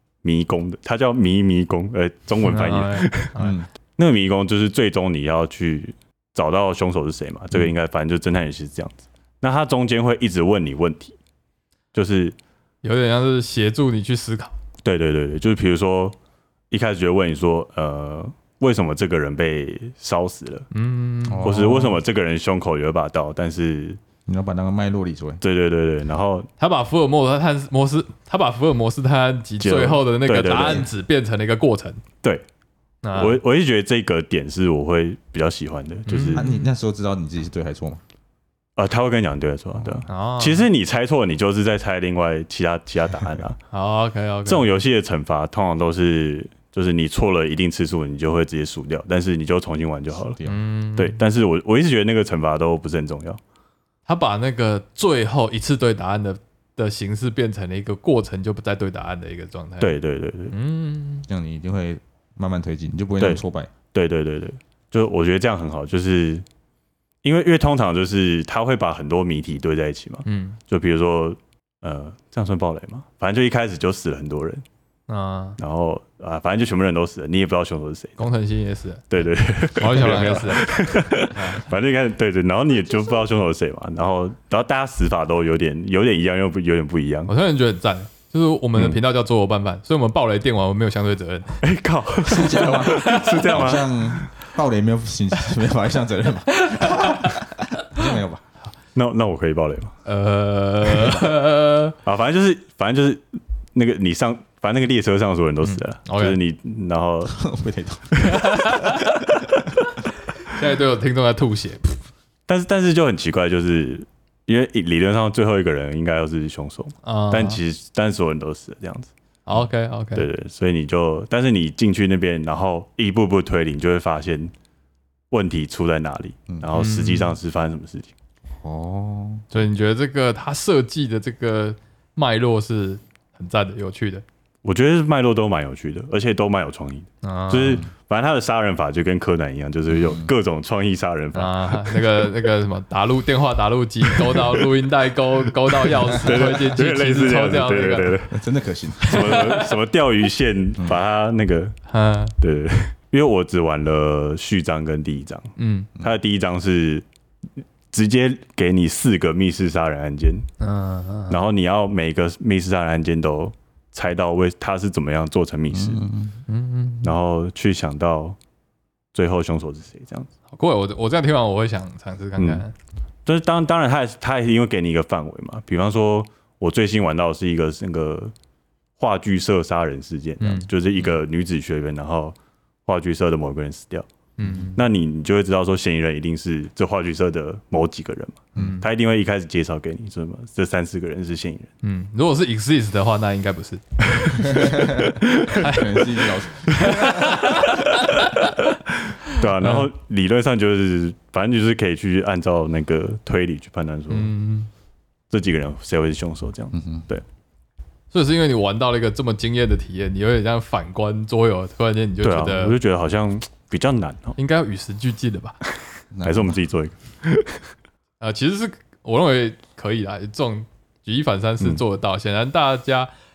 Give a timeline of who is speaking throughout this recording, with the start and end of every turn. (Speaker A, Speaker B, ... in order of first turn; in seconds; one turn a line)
Speaker A: 0.2-3.3
Speaker B: 2.4-3.5
Speaker C: 3.4-3.7
Speaker A: 4.0-11.1
Speaker A: 11.9-12.3
Speaker B: 12.8-14.5
Speaker A: 14.8-16.1
Speaker A: 16.7-20.7
Speaker B: 20.7-21.8
Speaker C: 21.3-22.0
Speaker A: 21.4-24.0
Speaker C: 24.2-25.4
Speaker A: 25.4-26.5
Speaker B: 26.6-32.0
Speaker A: 29.6-30.9
Speaker B: 33.0-33.4
Speaker A: 33.1-36.4
Speaker B: 36.1-36.7
Speaker C: 36.3-38.0
Speaker A: 38.8-43.6
Speaker C: 39.8-40.0
Speaker B: 40.1-40.7
Speaker B: 43.7-44.7
Speaker A: 44.5-50.4
Speaker B: 50.5-51.2
Speaker A: 51.0-53.4
Speaker B: 54.1-59.9
Speaker A: 59.8-60.5
Speaker B: 60.5-61.3
Speaker C: 61.3-63.7
Speaker A: 63.9-66.4
Speaker A: 67.2-74.6
Speaker B: 70.2-70.6
Speaker B: 75.1-75.6
Speaker A: 75.6-78.2
Speaker B: 78.2-81.6
Speaker A: 79.1-87.3
Speaker C: 81.3-81.6
Speaker B: 87.3-91.6
Speaker A: 91.6-94.2
Speaker C: 92.2-98.4
Speaker B: 92.5-93.5
Speaker B: 96.7-97.3
Speaker A: 98.9-99.9
Speaker B: 100.0-101.9
Speaker A: 102.0-107.3
Speaker B: 105.6-106.4
Speaker C: 107.2-109.0
Speaker B: 108.3-109.2
Speaker B: 110.4-112.0
Speaker A: 112.5-119.1
Speaker B: 117.0-117.6
Speaker B: 119.5-120.3
Speaker A: 120.2-124.5
Speaker A: 125.3-128.1
Speaker B: 126.7-127.3
Speaker C: 128.6-129.4
Speaker B: 129.5-134.2
Speaker A: 134.6-142.1
Speaker B: 137.2-137.8
Speaker C: 139.9-140.3
Speaker B: 141.3-148.2
Speaker A: 144.2-144.6
Speaker A: 145.8-148.3
Speaker C: 148.3-149.4
Speaker A: 149.0-151.8
Speaker B: 149.1-149.7
Speaker B: 151.9-152.3
Speaker A: 152.4-157.0
Speaker B: 155.6-155.9
Speaker A: 157.9-160.5
Speaker B: 160.6-161.4
Speaker A: 161.3-166.0
Speaker C: 165.7-166.3
Speaker B: 166.5-167.1
Speaker A: 167.0-168.4
Speaker A: 169.1-170.3
Speaker B: 170.5-172.7
Speaker A: 173.2-178.3
Speaker A: 179.0-184.1
Speaker B: 180.4-180.7
Speaker B: 184.4-184.8
Speaker A: 184.7-191.7
Speaker B: 188.6-188.8
Speaker B: 191.8-198.6
Speaker C: 194.4-197.7
Speaker A: 199.1-204.3
Speaker B: 199.3-199.9
Speaker B: 204.1-204.7
Speaker A: 205.3-207.2
Speaker C: 206.7-207.1
Speaker B: 208.1-212.8
Speaker A: 212.2-214.4
Speaker B: 214.4-215.6
Speaker C: 216.1-216.6
Speaker A: 216.2-217.6
Speaker B: 218.2-223.1